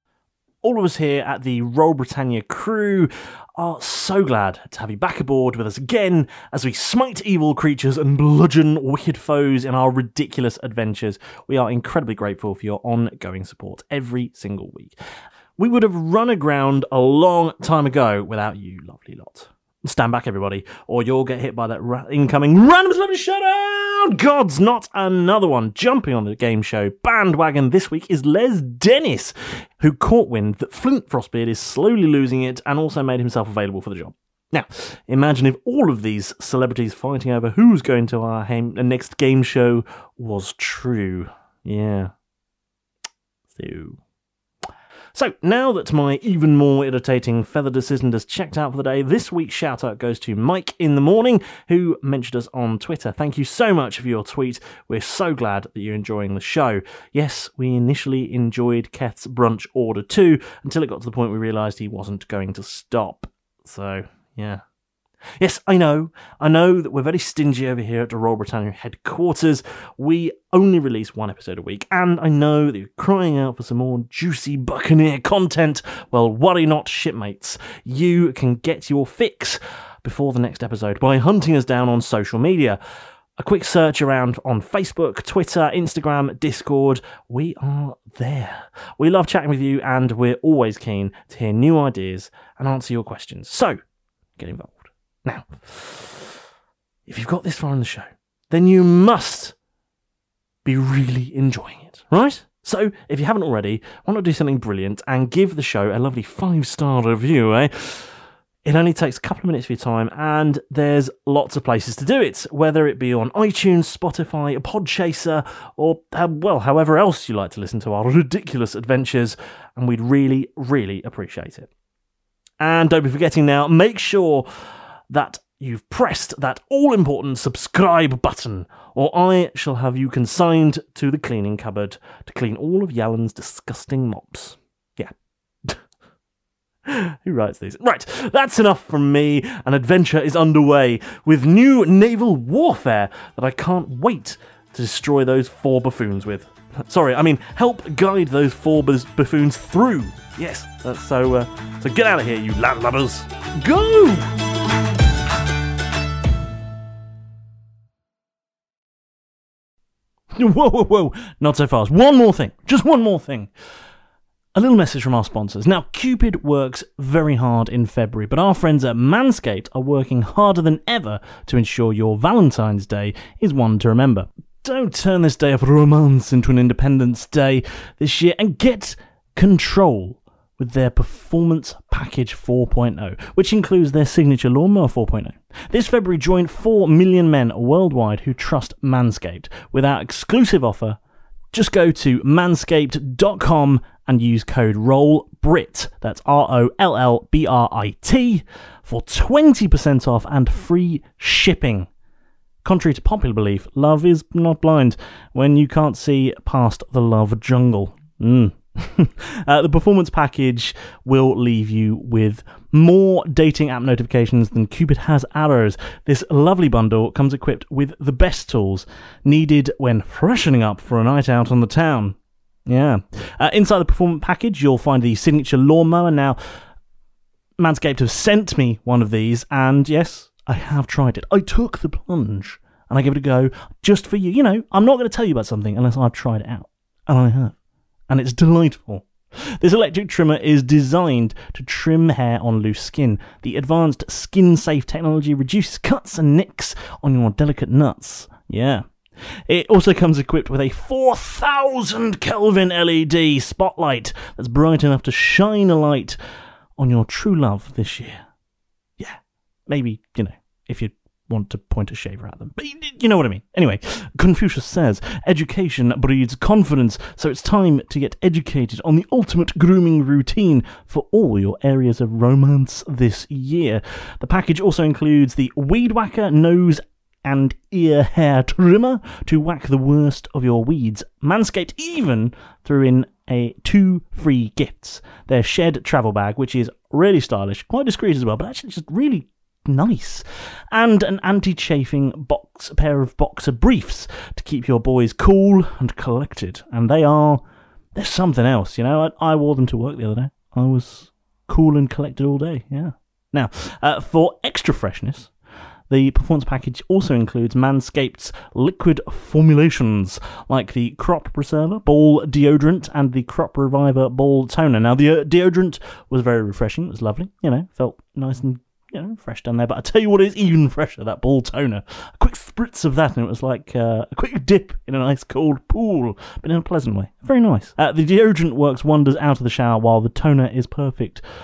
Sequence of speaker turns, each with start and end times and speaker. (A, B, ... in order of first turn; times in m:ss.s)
0:00.6-0:15.0 A
0:15.6-0:42.1 A
0:43.6-0:44.0 A
0:45.1-1:04.6 A
1:05.4-1:22.8 A
1:23.4-1:33.8 A
1:34.4-1:36.3 A
1:37.1-1:39.5 A
1:40.6-2:01.7 A
2:02.6-2:04.5 A
2:05.1-2:15.1 A
2:16.8-2:34.3 A
2:40.3-2:43.5 A
2:44.5-3:11.0 A
3:11.5-3:21.9 A
3:22.6-3:42.2 A
3:42.7-3:46.4 A
3:47.6-3:57.5 A
3:58.1-4:16.2 A
4:16.8-4:18.2 A
4:19.0-4:57.4 A
4:57.9-5:05.3 A
5:05.9-5:31.2 A